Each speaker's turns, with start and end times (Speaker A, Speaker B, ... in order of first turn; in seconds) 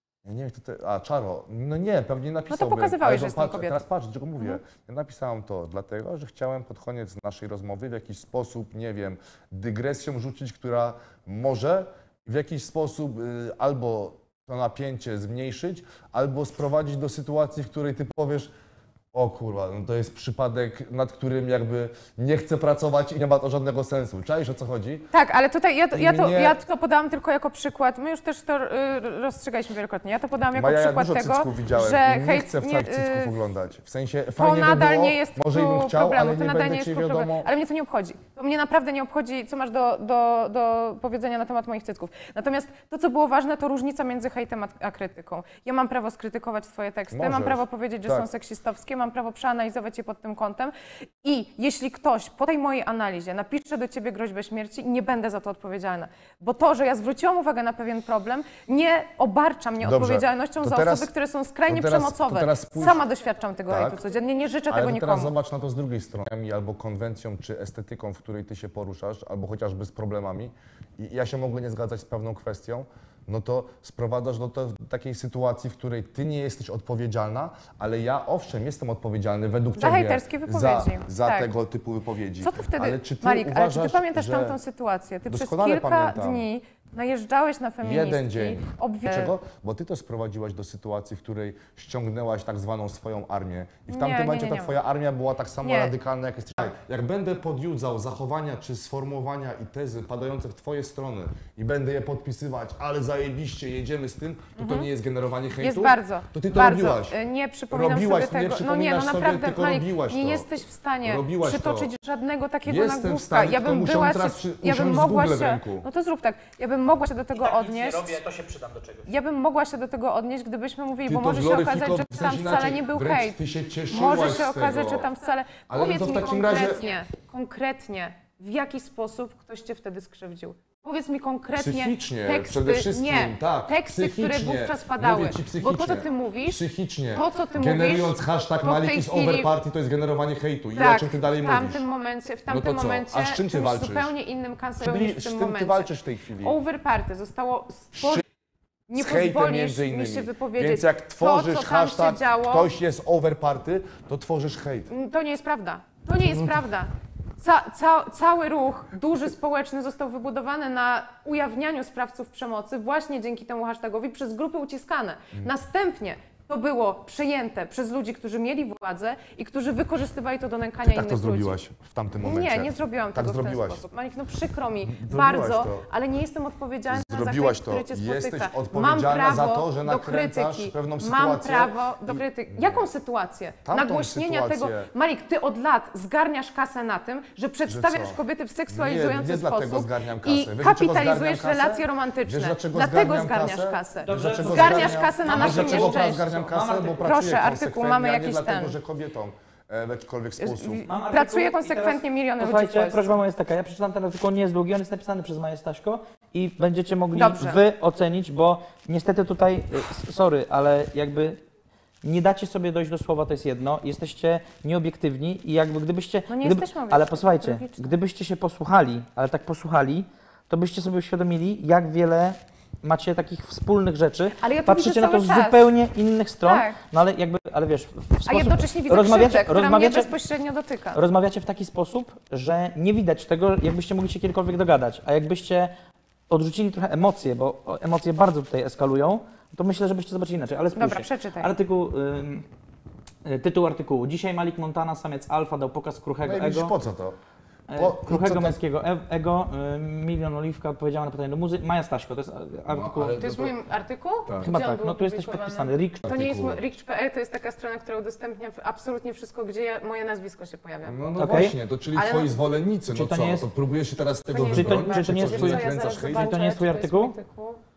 Speaker A: 0.2-18.5, 19.1-25.1, 25.9-26.6, 30.5-37.5, 47.1-48.3, 59.8-61.1, 61.7-63.0, 63.7-64.0, 64.7-84.6, 85.3-86.5, 87.8-107.2, 107.7-110.5, 111.0-111.9, 112.7-115.9, 121.1-125.1, 125.7-126.8, 131.6-141.8, 142.5-144.1, 144.8-146.6, 148.0-148.2, 148.9-154.9, 156.2-156.6, 170.8-173.8, 174.8-175.8, 176.9-182.9, 183.6-184.9, 187.7-200.8, 246.2-247.2, 247.7-248.6, 252.7-253.6, 254.2-254.6, 256.1-256.6, 260.9-266.5
Speaker B: 2.5-3.8, 25.1-33.4, 34.4-65.3, 79.8-81.5, 82.4-89.3, 93.9-94.8, 95.6-95.9, 104.6-104.9, 105.6-118.2, 119.1-123.4, 123.9-136.6, 137.1-139.5, 140.8-145.9, 146.4-148.2, 148.9-152.7, 154.9-171.6, 172.2-196.4, 197.0-198.8, 200.4-203.2, 207.1-207.6, 216.3-217.9, 224.4-225.7, 226.4-226.8, 228.3-231.0, 240.8-241.5, 253.1-261.0, 261.9-262.4, 264.3-267.6
Speaker C: 117.3-119.1, 194.0-197.2, 200.9-211.4, 212.0-230.1, 230.9-235.8, 236.3-242.4, 243.2-246.7, 247.7-253.2, 254.4-256.2, 261.2-261.6, 262.9-263.5, 264.5-267.1